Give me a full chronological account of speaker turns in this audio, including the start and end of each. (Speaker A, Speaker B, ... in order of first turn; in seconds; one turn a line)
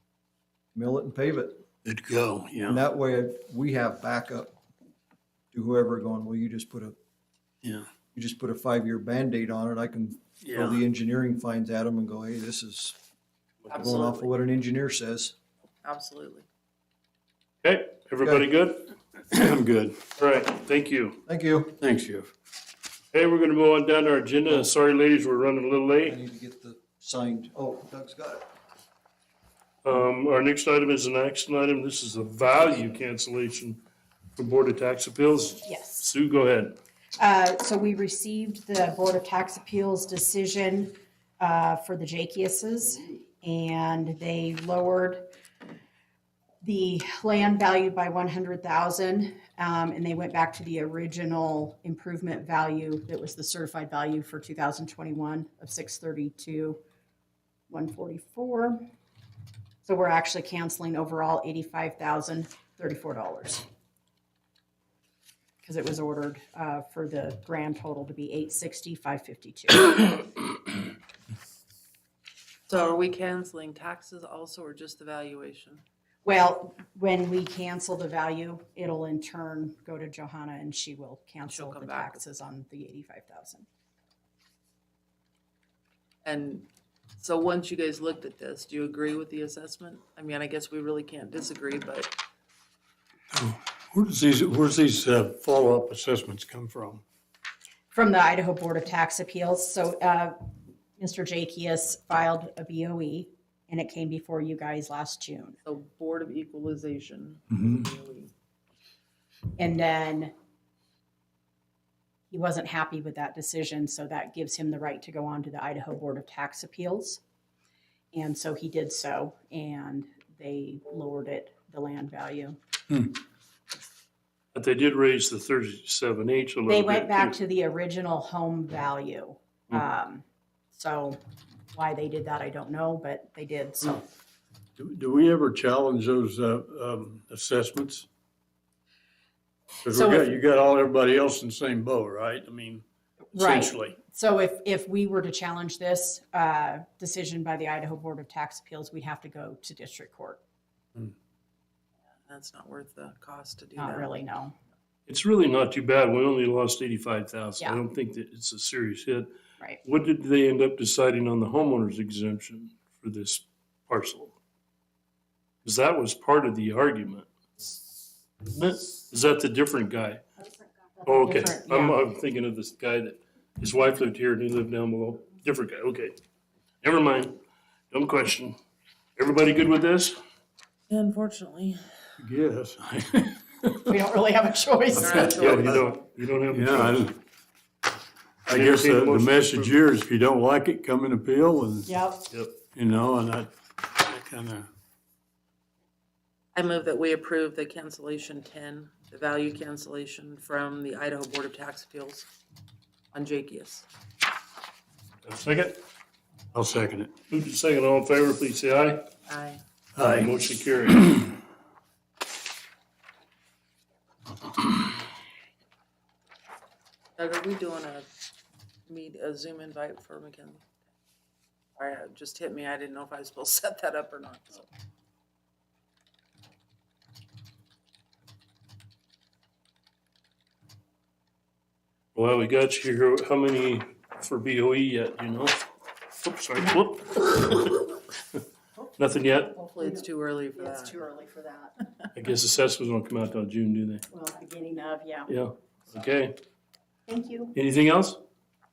Speaker A: 0.7-1.6
Speaker B: 1.8-2.8
Speaker A: 2.6-4.5
Speaker A: 5.5-7.0
Speaker A: 8.1-13.0
Speaker B: 10.4-10.8
Speaker C: 13.7-14.3
Speaker A: 13.7-15.3
Speaker C: 15.8-16.4
Speaker D: 17.6-18.9
Speaker B: 19.3-20.1
Speaker D: 20.2-21.2
Speaker A: 21.3-21.7
Speaker B: 21.8-22.3
Speaker D: 23.1-26.2
Speaker A: 26.1-28.4
Speaker D: 29.8-33.8
Speaker D: 34.4-36.8
Speaker E: 35.6-36.1
Speaker E: 37.2-45.3
Speaker E: 46.6-56.8
Speaker E: 57.7-58.8
Speaker E: 59.8-63.6
Speaker E: 65.6-70.3
Speaker C: 72.7-75.8
Speaker E: 76.2-83.7
Speaker C: 81.5-82.2
Speaker C: 86.2-86.7
Speaker C: 87.2-92.1
Speaker B: 93.3-97.0
Speaker E: 97.9-100.4
Speaker E: 101.0-105.6
Speaker C: 105.6-108.3
Speaker E: 109.6-110.3
Speaker E: 112.3-117.2
Speaker E: 118.1-122.6
Speaker D: 124.5-127.4
Speaker E: 126.7-131.2
Speaker E: 131.7-134.1
Speaker B: 134.8-138.1
Speaker B: 139.8-143.9
Speaker E: 139.9-140.3
Speaker E: 143.3-150.4
Speaker C: 152.3-154.2
Speaker E: 153.8-154.5
Speaker D: 155.1-159.3
Speaker D: 159.8-164.3
Speaker D: 165.6-167.3
Speaker D: 168.4-170.2
Speaker E: 171.0-172.0
Speaker D: 171.1-176.2
Speaker D: 176.8-177.4
Speaker D: 177.9-178.6
Speaker D: 179.2-180.2
Speaker C: 180.9-181.8
Speaker B: 182.2-183.3
Speaker E: 183.8-185.5
Speaker C: 184.9-186.0
Speaker D: 185.3-187.1
Speaker B: 186.5-187.1
Speaker B: 188.5-191.9
Speaker D: 188.5-189.7
Speaker E: 191.9-192.3
Speaker B: 192.7-194.7
Speaker C: 196.6-202.3
Speaker C: 203.1-203.9
Speaker D: 205.2-205.8
Speaker B: 206.5-207.1
Speaker D: 207.3-209.1
Speaker C: 209.3-209.6
Speaker B: 209.9-210.3
Speaker D: 210.0-211.1
Speaker C: 217.2-218.1
Speaker C: 218.9-220.6
Speaker C: 221.8-224.7
Speaker D: 232.1-235.6
Speaker D: 236.1-238.4
Speaker D: 239.0-239.5
Speaker C: 239.5-241.0
Speaker E: 240.6-241.8
Speaker D: 242.1-244.0
Speaker E: 244.1-245.3
Speaker D: 245.3-246.4
Speaker E: 247.1-247.5
Speaker D: 247.5-248.2